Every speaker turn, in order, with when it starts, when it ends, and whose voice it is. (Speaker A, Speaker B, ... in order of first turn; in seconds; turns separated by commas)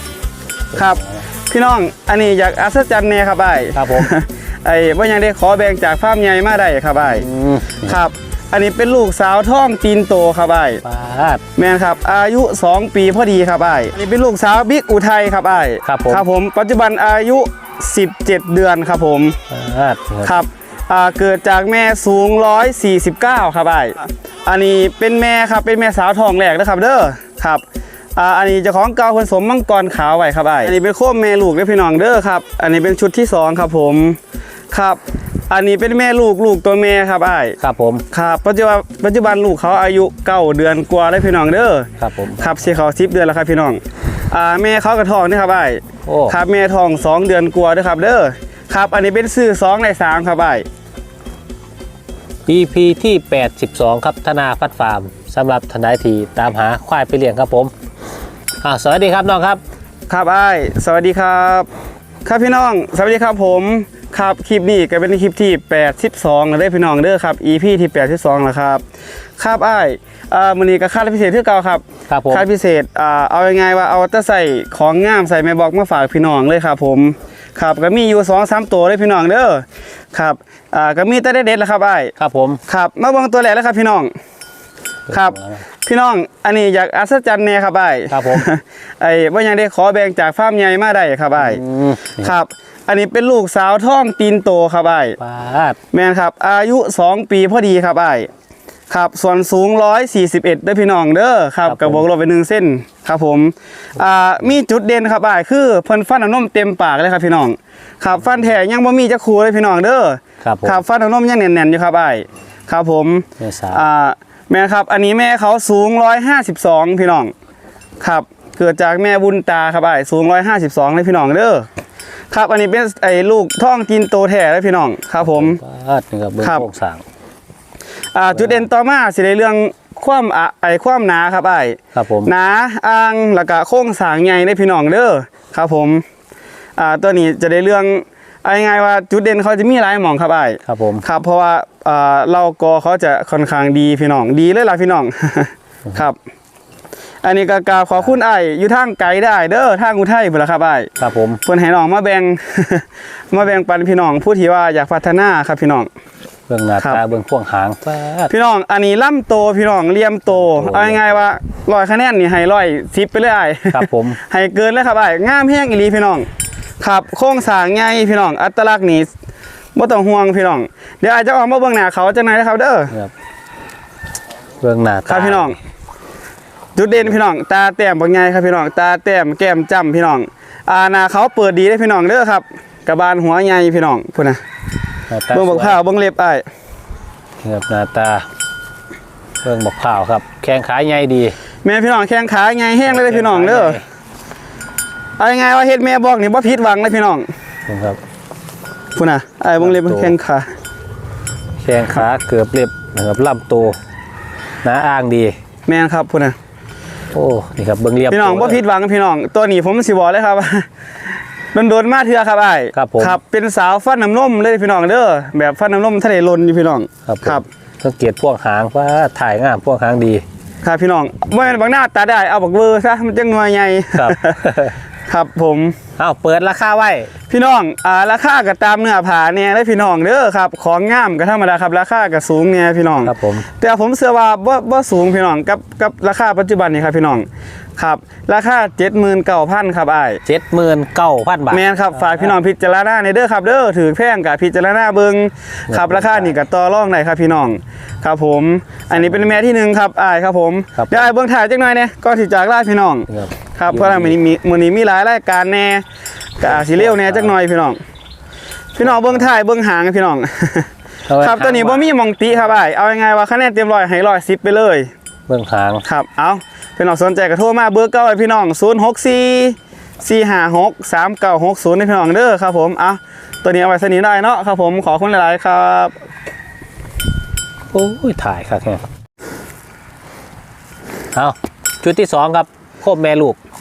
Speaker A: 0.7-1.2, Speaker B: 0.8-7.3, Speaker A: 3.7-4.1, Speaker A: 7.1-8.0, Speaker B: 7.8-10.8, Speaker A: 10.8-11.4, Speaker B: 11.6-19.4, Speaker A: 15.8-16.2, Speaker A: 19.5-20.4, Speaker B: 20.2-27.6, Speaker B: 28.2-34.2, Speaker B: 34.7-37.6, Speaker A: 37.6-38.0, Speaker B: 38.1-50.6, Speaker A: 42.0-42.5, Speaker A: 46.1-46.4, Speaker A: 52.5-57.7, Speaker A: 58.6-59.6, Speaker B: 60.1-61.7, Speaker B: 62.3-68.8, Speaker B: 69.4-82.1, Speaker A: 72.1-72.5, Speaker A: 82.2-82.6, Speaker B: 82.7-84.1, Speaker A: 85.1-85.7, Speaker B: 85.1-91.6, Speaker A: 88.1-88.5, Speaker A: 91.4-92.4, Speaker B: 92.2-95.2, Speaker A: 95.2-95.8, Speaker B: 95.9-98.3, Speaker B: 98.9-117.3, Speaker A: 101.7-102.0, Speaker A: 110.4-110.8, Speaker A: 113.4-113.8, Speaker B: 118.0-121.7, Speaker B: 122.3-125.6, Speaker A: 125.2-127.0, Speaker B: 126.4-126.7, Speaker B: 128.1-136.0, Speaker A: 128.3-128.7, Speaker A: 131.9-132.3, Speaker B: 136.8-146.2, Speaker A: 140.7-141.0, Speaker B: 147.2-150.9, Speaker A: 151.0-151.4, Speaker B: 151.4-155.9, Speaker A: 156.5-158.3, Speaker B: 158.3-166.3, Speaker A: 160.3-161.2, Speaker A: 163.7-164.2, Speaker B: 166.8-169.1, Speaker B: 169.8-172.9, Speaker A: 174.6-175.5, Speaker B: 175.1-175.6, Speaker B: 176.8-184.4, Speaker A: 185.1-185.8, Speaker B: 185.3-186.4, Speaker A: 187.4-188.3, Speaker A: 189.4-191.4, Speaker B: 191.6-193.8, Speaker A: 192.9-193.8, Speaker B: 195.2-197.3, Speaker A: 197.7-198.0, Speaker B: 199.0-200.5, Speaker A: 199.6-200.2, Speaker A: 201.6-203.8, Speaker A: 204.6-205.3, Speaker B: 205.7-206.4, Speaker A: 207.1-208.6, Speaker B: 208.1-210.7, Speaker B: 211.5-217.4, Speaker A: 212.7-213.2, Speaker A: 217.1-220.2, Speaker B: 220.6-224.4, Speaker A: 223.9-224.8, Speaker B: 225.1-225.8, Speaker A: 226.0-227.1, Speaker B: 227.3-237.3, Speaker A: 233.0-233.5, Speaker B: 237.8-240.2, Speaker A: 240.3-242.3, Speaker B: 241.5-255.8, Speaker A: 245.7-246.4, Speaker A: 248.9-249.4, Speaker A: 250.8-251.1, Speaker A: 253.1-254.2, Speaker B: 256.4-257.8, Speaker A: 256.5-257.4, Speaker B: 258.8-264.9, Speaker A: 258.8-259.3, Speaker A: 261.1-261.9, Speaker A: 265.3-265.8, Speaker B: 265.9-275.9, Speaker A: 277.7-278.8, Speaker A: 281.1-283.4